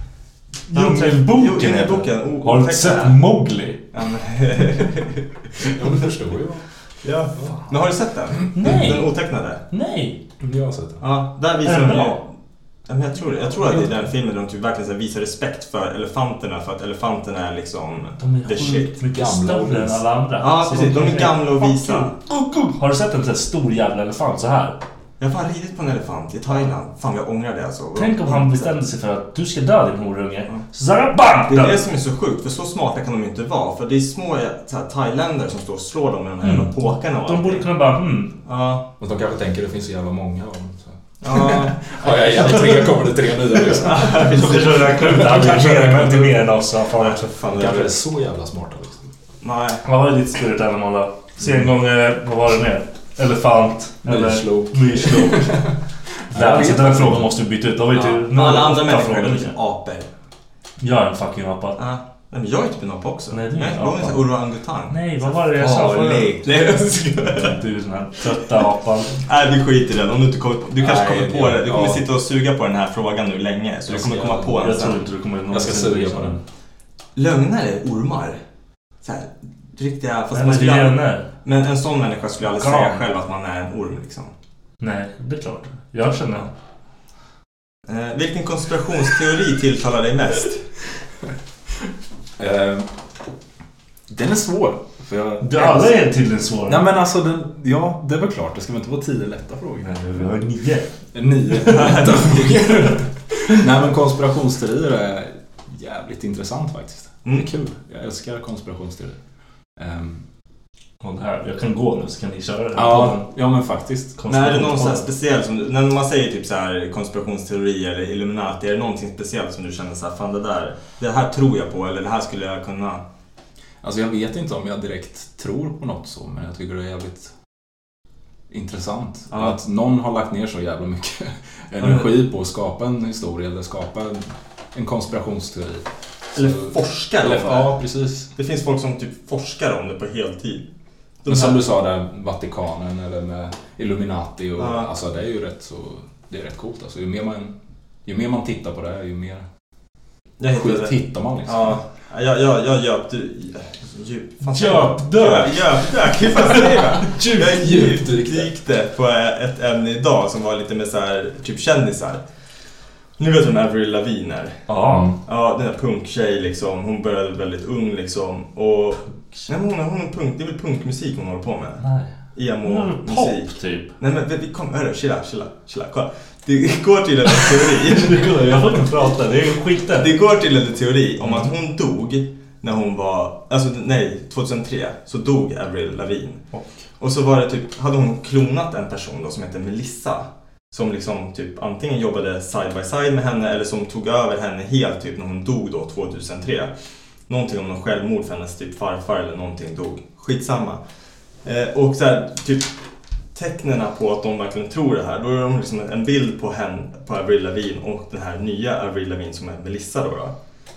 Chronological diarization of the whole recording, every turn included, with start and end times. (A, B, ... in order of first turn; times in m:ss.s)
0:00.7-0:03.8 A
0:00.7-0:03.2 B
0:03.9-0:05.7 B
0:05.6-0:06.7 C
0:07.0-0:09.6 B
0:08.6-0:09.1 A
0:08.6-0:09.0 C
0:09.7-0:10.2 A
0:10.4-0:11.0 C
0:11.0-0:12.3 B
0:11.6-0:12.2 A
0:12.9-0:18.9 B
0:13.6-0:13.9 C
0:18.2-0:24.8 A
0:19.1-0:20.0 C
0:20.4-0:22.1 B
0:25.2-0:28.7 B
0:28.0-0:31.8 A
0:31.5-0:37.7 B
0:36.4-0:38.3 A
0:38.4-0:38.9 B
0:39.0-0:44.5 C
0:41.2-0:42.9 B
0:43.7-0:46.3 B
0:44.0-0:47.3 A
0:45.0-0:46.3 C
0:46.9-0:47.9 B
0:47.5-0:49.1 C
0:49.4-0:49.8 B
0:49.8-0:55.6 A
0:54.0-0:55.7 C
0:56.3-0:57.3 C
0:56.3-0:59.6 A
0:57.9-1:00.1 B
1:00.8-1:01.8 A
1:01.8-1:07.6 B
1:03.3-1:04.3 A
1:04.9-1:06.4 A
1:07.2-1:09.2 A
1:09.2-1:15.0 B
1:10.8-1:12.0 C
1:13.9-1:14.8 C
1:14.6-1:16.4 A
1:15.5-1:16.4 C
1:17.2-1:18.4 B
1:19.0-1:24.3 B
1:20.3-1:21.3 A
1:22.4-1:23.0 A
1:24.8-1:26.5 A
1:27.9-1:30.6 B
1:32.4-1:32.9 C
1:34.1-1:36.0 C
1:35.4-1:36.9 A
1:36.7-1:40.2 C
1:39.8-1:40.9 A
1:41.1-1:49.2 C
1:41.7-1:42.1 A
1:41.7-1:42.1 B
1:49.8-1:50.2 C
1:51.0-1:53.3 A
1:52.8-1:54.8 C
1:54.2-1:55.1 A
1:54.3-2:03.0 B
2:03.8-2:07.3 C
2:08.5-2:18.3 C
2:09.3-2:09.6 B
2:11.8-2:12.1 B
2:16.4-2:17.8 B
2:18.3-2:20.7 B
2:21.2-2:21.6 B
2:21.3-2:29.4 C
2:24.6-2:24.9 B
2:30.4-2:42.2 B
2:30.5-2:31.8 C
2:34.4-2:37.6 A
2:37.5-2:38.5 C
2:43.2-2:44.6 B
2:44.7-2:45.1 A
2:44.9-2:45.2 C
2:45.2-2:51.8 B
2:51.8-2:52.1 A
2:52.4-2:58.3 B
2:52.6-2:53.9 A
2:57.8-3:00.1 A
3:00.0-3:06.4 B
3:07.0-3:16.7 B
3:17.3-3:20.8 B
3:21.4-3:22.7 B
3:23.4-3:30.3 B